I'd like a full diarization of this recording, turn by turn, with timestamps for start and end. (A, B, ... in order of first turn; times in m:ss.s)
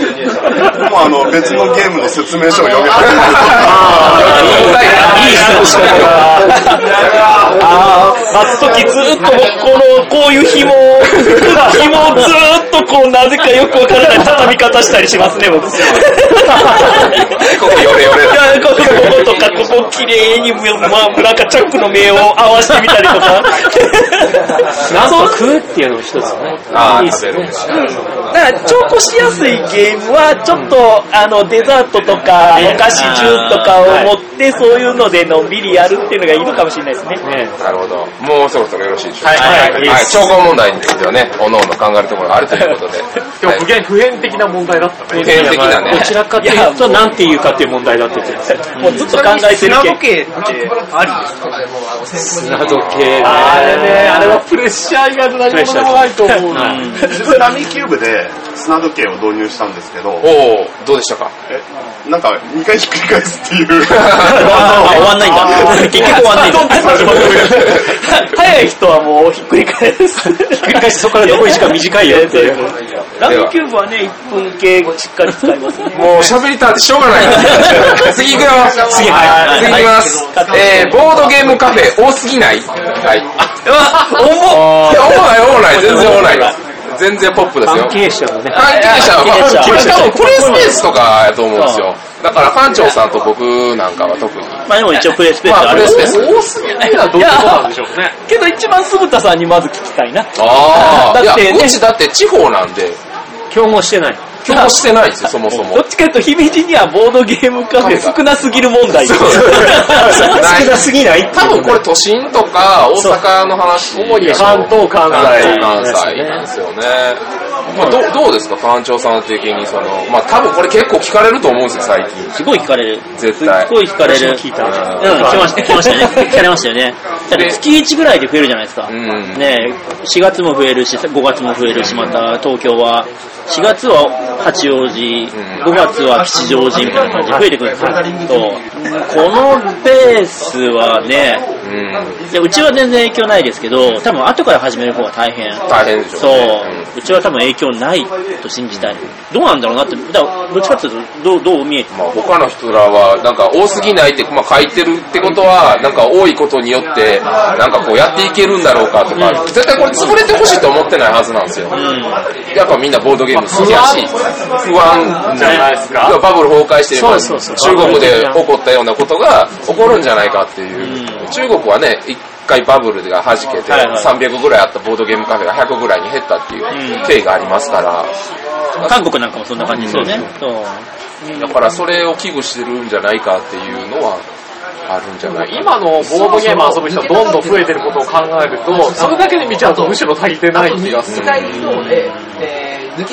0:00.7-0:04.4 A
0:03.0-0:06.4 B
0:03.6-0:06.8 C
0:06.4-0:06.9 D
0:07.5-0:25.5 D
0:11.5-0:12.3 C
0:16.4-0:17.0 C
0:17.4-0:19.3 B
0:22.8-0:23.4 C
0:24.9-0:27.6 C
0:26.7-0:27.8 B
0:27.7-0:37.2 D
0:32.6-0:32.9 C
0:32.9-0:33.8 E
0:33.8-0:34.1 C
0:37.2-0:37.5 C
0:37.6-0:43.7 B
0:39.2-0:40.0 F
0:39.3-0:40.3 C
0:43.4-0:45.6 F
0:45.1-0:49.0 C
0:45.2-0:46.2 B
0:45.9-0:47.2 D
0:48.7-0:50.5 D
0:48.8-0:49.1 E
0:48.9-0:51.4 G
0:52.2-0:54.4 C
0:52.7-0:53.4 B
0:53.2-0:56.9 F
0:55.5-0:56.8 C
0:56.8-0:57.0 E
0:57.0-1:00.3 A
1:00.2-1:01.3 B
1:01.5-1:06.0 A
1:03.9-1:05.0 B
1:04.2-1:07.2 E
1:04.7-1:16.3 D
1:06.8-1:08.0 B
1:10.4-1:12.6 C
1:13.2-1:13.5 B
1:15.9-1:23.3 B
1:17.4-1:18.1 D
1:18.8-1:19.9 C
1:19.0-1:21.6 D
1:23.5-1:26.6 D
1:24.4-1:34.7 B
1:27.6-1:28.6 C
1:28.6-1:30.7 D
1:29.2-1:30.0 E
1:29.2-1:30.4 C
1:31.5-1:31.9 E
1:34.7-1:36.2 E
1:35.4-1:36.5 B
1:35.6-1:38.2 F
1:36.7-1:37.7 D
1:38.3-1:41.8 D
1:40.4-1:43.0 B
1:43.5-1:44.2 C
1:44.4-1:45.8 B
1:44.5-1:44.8 D
1:45.5-1:50.2 D
1:47.8-1:48.2 B
1:48.9-2:02.3 B
1:49.4-1:51.8 C
1:53.9-1:55.7 F
1:54.2-1:56.4 C
2:02.3-2:21.4 E
2:03.2-2:03.7 B
2:04.0-2:06.2 C
2:04.6-2:05.4 B
2:07.3-2:07.6 B
2:08.9-2:09.7 B
2:11.7-2:12.2 B
2:15.3-2:15.7 B
2:16.8-2:17.1 B
2:17.2-2:18.0 C
2:21.6-2:22.2 B
2:22.3-2:31.9 E
2:23.8-2:24.0 B
2:25.7-2:26.9 B
2:28.7-2:29.1 B
2:31.9-2:41.8 B
2:39.2-2:39.5 C
2:41.7-2:42.2 E
2:42.5-2:58.1 B
2:43.3-2:44.3 F
2:44.9-2:46.2 F
2:45.4-2:45.7 C
2:46.9-2:48.4 C
2:50.8-2:51.3 E
2:53.7-2:54.1 E
2:56.7-2:57.1 E
2:58.8-2:59.1 B
2:58.8-3:00.9 E
2:59.7-3:00.3 B
3:01.3-3:04.2 B
3:04.9-3:06.8 B
3:05.2-3:11.3 F
3:11.1-3:11.7 B
3:11.4-3:12.4 E